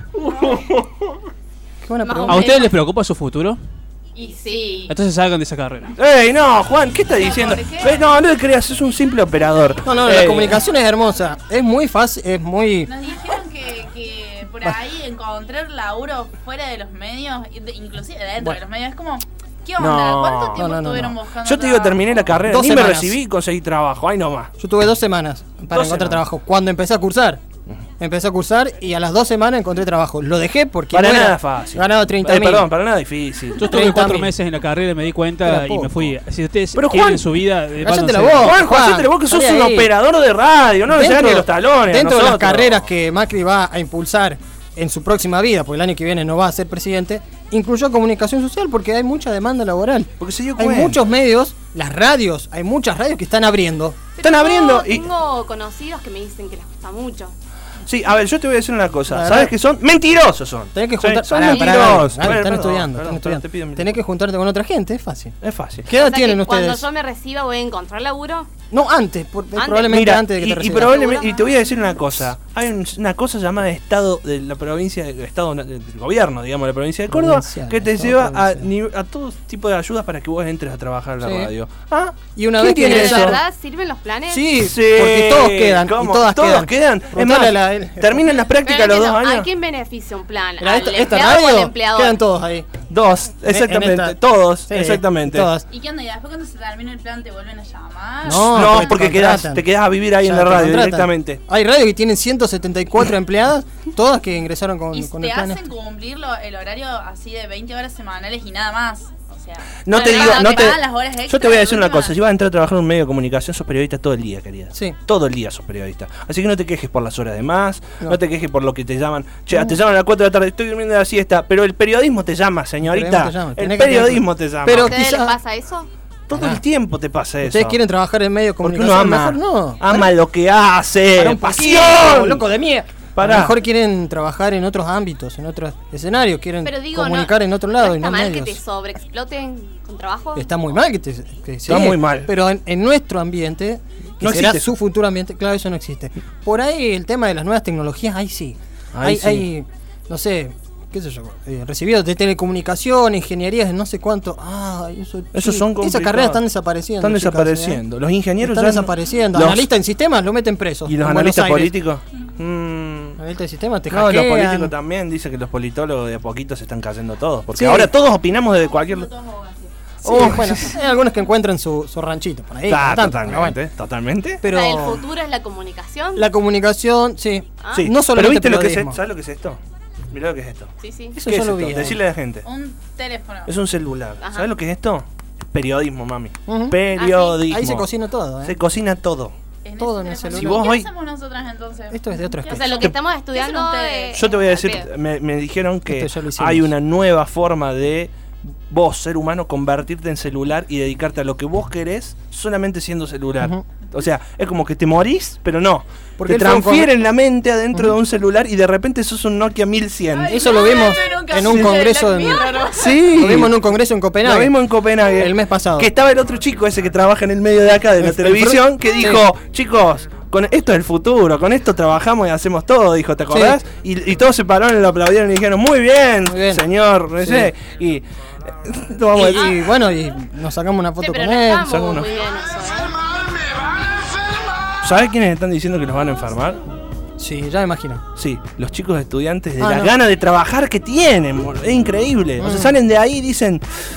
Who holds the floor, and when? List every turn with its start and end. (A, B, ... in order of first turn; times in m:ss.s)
0:00.2-0:01.2 A
0:01.8-0:02.5 B
0:02.0-0:02.8 C
0:02.3-0:03.6 D
0:04.2-0:04.8 E
0:04.2-0:04.9 C
0:04.9-0:06.0 D
0:06.0-0:10.6 A
0:07.1-0:08.1 E
0:09.8-0:12.9 B
0:12.8-0:22.4 E
0:19.8-0:20.7 A
0:20.6-0:21.2 B
0:21.4-0:24.5 A
0:22.4-0:23.2 B
0:24.6-0:27.4 B
0:25.7-0:26.2 A
0:28.0-0:32.7 B
0:30.9-0:33.7 A
0:33.6-0:34.3 B
0:33.6-0:38.6 D
0:35.4-0:36.1 B
0:36.7-0:37.3 A
0:37.8-0:39.9 B
0:38.4-0:42.8 A
0:40.9-0:54.1 B
0:50.2-0:51.0 A
0:54.2-0:57.4 C
0:54.2-0:55.0 A
0:57.9-1:04.0 A
0:59.1-0:59.5 B
1:00.8-1:05.4 B
1:05.4-1:05.9 A
1:05.9-1:06.9 B
1:05.9-1:08.5 C
1:08.7-1:11.1 B
1:09.6-1:10.1 C
1:09.9-1:23.4 A
1:10.6-1:11.4 C
1:11.5-1:11.9 E
1:17.1-1:18.7 B
1:21.2-1:21.5 B
1:22.4-1:23.4 B
1:22.8-1:24.5 C
1:24.3-1:28.4 B
1:24.6-1:29.5 A
1:28.6-1:32.2 C
1:30.6-1:32.7 B
1:32.9-1:35.5 A
1:33.5-1:34.2 B
1:34.7-1:35.7 B
1:35.7-1:39.0 E
1:38.2-1:45.6 B
1:38.4-1:41.4 A
1:44.9-1:52.2 E
1:49.8-2:05.0 A
1:49.9-1:50.8 C
1:54.7-1:55.0 B
1:59.5-1:59.8 B
2:02.8-2:05.4 B
2:04.7-2:05.9 C
2:06.3-2:07.8 A
2:06.3-2:06.6 B
2:07.4-2:10.1 B
2:08.6-2:12.5 A
2:11.2-2:18.6 B
2:13.2-2:13.6 A
2:16.6-2:20.5 C
2:20.4-2:37.8 B
2:21.7-2:22.3 A
2:24.2-2:24.7 A
2:28.9-2:29.5 A
2:35.3-2:36.4 A
2:37.0-2:39.7 A
2:38.4-2:41.8 B
2:40.9-2:43.2 A
2:43.2-2:44.7 B
2:43.9-2:49.1 A
2:47.5-2:47.9 B
2:48.6-2:49.7 E
2:50.0-2:50.8 A
2:50.0-2:53.6 B
2:52.7-2:54.4 A
2:54.4-2:55.1 B
2:54.5-2:56.3 C
2:56.2-2:59.0 B
2:57.6-2:57.9 C
2:57.8-2:59.6 A
3:00.1-3:00.7 A
3:00.8-3:01.2 C
3:01.2-3:02.0 B
3:01.2-3:02.5 A
3:02.4-3:03.5 E
3:03.5-3:07.9 A
3:04.2-3:04.5 C
3:06.5-3:06.8 B
3:07.0-3:07.5 C
3:07.4-3:08.6 B
3:08.4-3:09.4 A
3:09.6-3:14.1 E
3:09.8-3:10.6 B
3:10.3-3:10.9 A
3:11.9-3:12.8 B
3:12.5-3:14.9 C
3:12.7-3:13.0 A
3:14.1-3:18.1 A
3:15.9-3:16.7 B
3:18.7-3:31.9 A
3:26.2-3:26.9 B
3:30.1-3:33.1 E
3:30.3-3:32.5 B
3:32.6-3:33.5 A
3:33.1-3:35.9 B
3:34.2-3:48.1 A
3:38.0-3:39.3 B
3:43.3-3:43.6 B
3:46.3-3:46.6 B
3:47.2-3:47.5 B
3:48.6-3:49.6 A
3:49.1-3:52.1 B
3:51.0-3:53.0 C
3:51.7-3:52.1 A
3:54.8-3:56.6 A
3:57.2-3:58.0 B
3:58.2-4:03.6 A
3:59.6-4:00.0 B
4:02.4-4:02.8 B